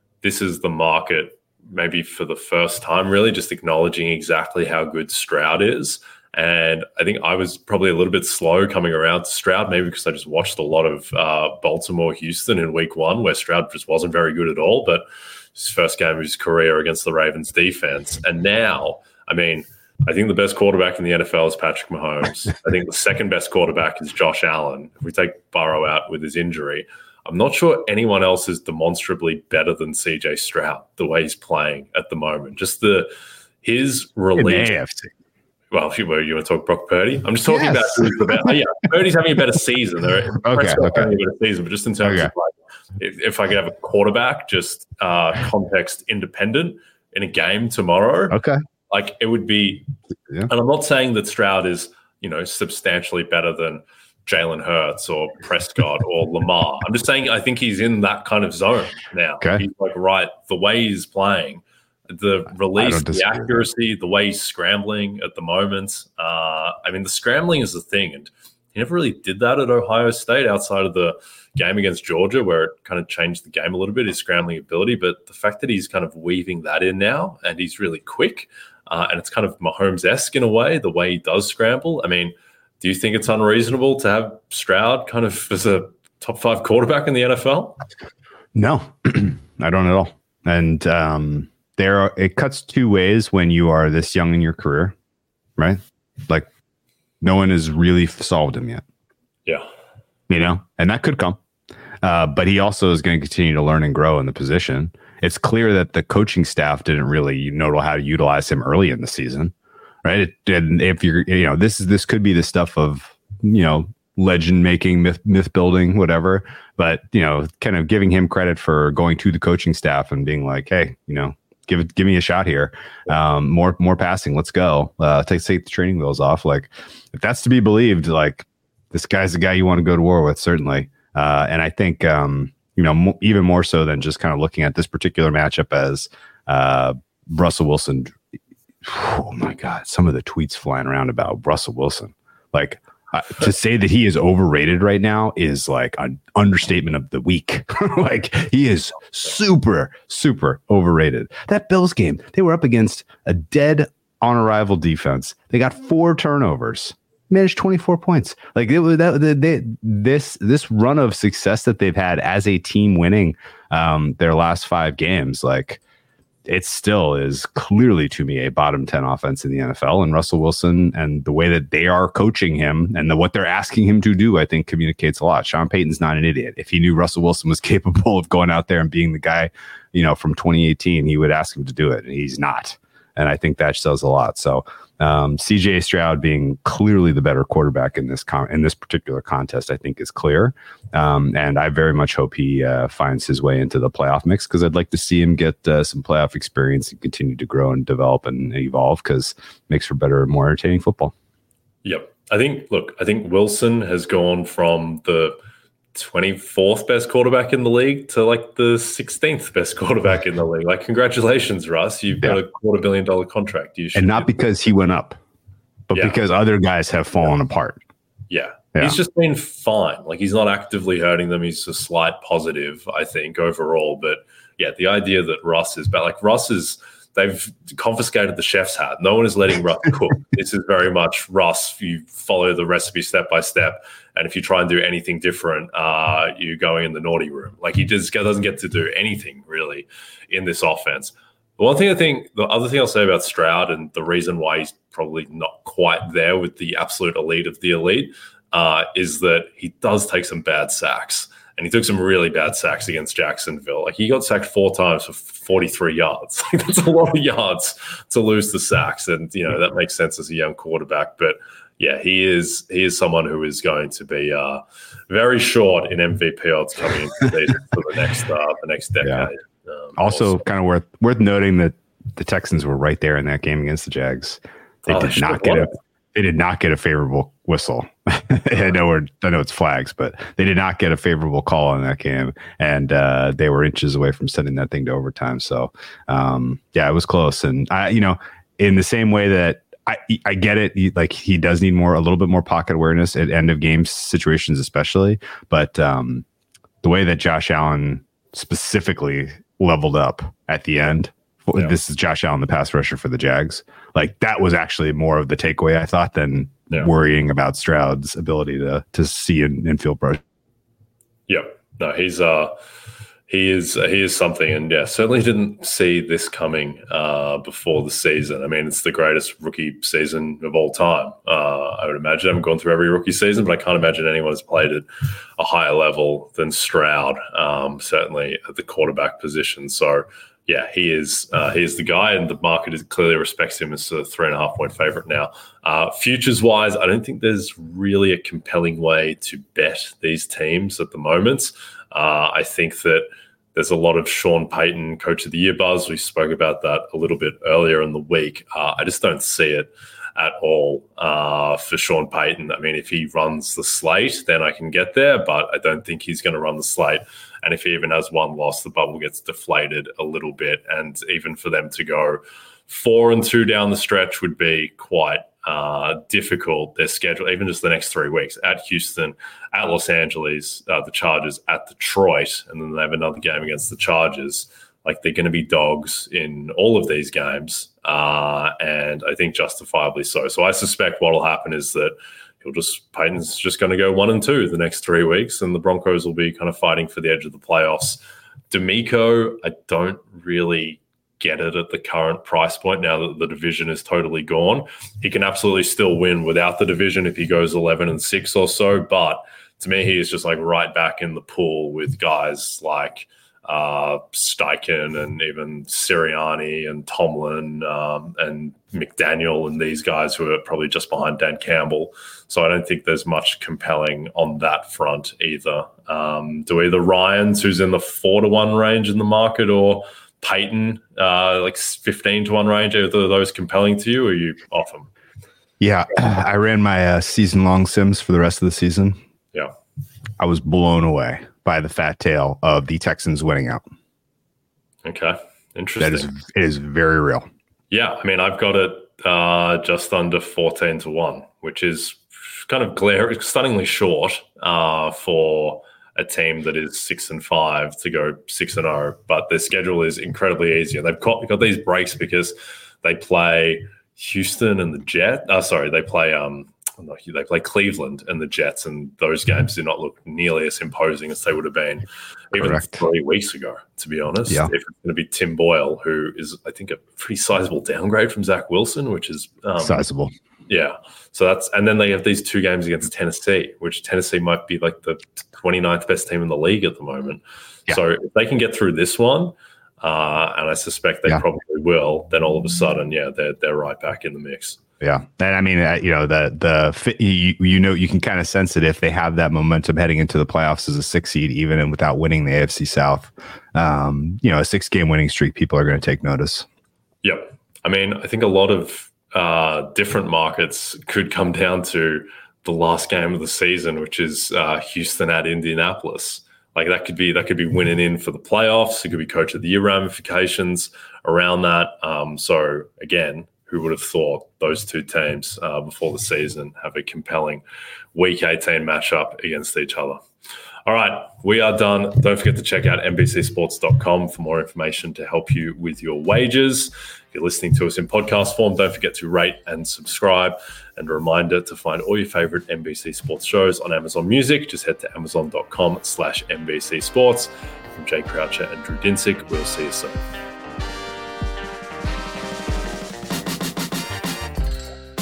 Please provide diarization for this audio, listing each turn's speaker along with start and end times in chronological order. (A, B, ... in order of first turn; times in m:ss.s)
0:00.2-0:33.1 A
0:33.6-0:34.8 A
0:34.4-0:35.1 B
0:35.7-0:49.9 A
0:37.5-0:38.6 B
0:40.4-0:41.1 B
0:42.0-0:42.3 B
0:48.3-0:48.6 B
0:50.5-1:27.8 A
1:02.7-1:03.7 B
1:28.6-1:35.0 B
1:35.6-1:36.5 B
1:37.2-1:38.8 B
1:40.3-1:41.4 B
1:42.0-2:18.2 B
2:18.8-2:45.8 B
2:46.5-3:21.1 B
3:21.8-3:25.4 A
3:26.0-3:34.3 A
3:34.0-3:35.2 B
3:35.9-3:37.8 B
3:35.9-3:36.2 A
3:38.3-4:30.4 A
4:29.0-4:29.3 B
4:30.0-4:56.2 B
4:34.8-4:35.7 A
4:56.8-5:10.2 B
5:11.3-5:12.6 A
5:13.3-5:24.9 A
5:25.4-7:04.9 A
7:05.6-7:09.0 B
7:10.2-7:13.6 B
7:14.8-7:16.1 A
7:15.8-7:17.3 B
7:17.7-7:49.8 A
7:42.3-7:42.8 B
7:44.3-7:44.5 B
7:49.6-7:50.1 B
7:50.5-8:04.6 A
8:04.8-8:16.5 B
8:17.0-8:37.4 A
8:38.0-8:40.0 A
8:40.7-9:00.0 A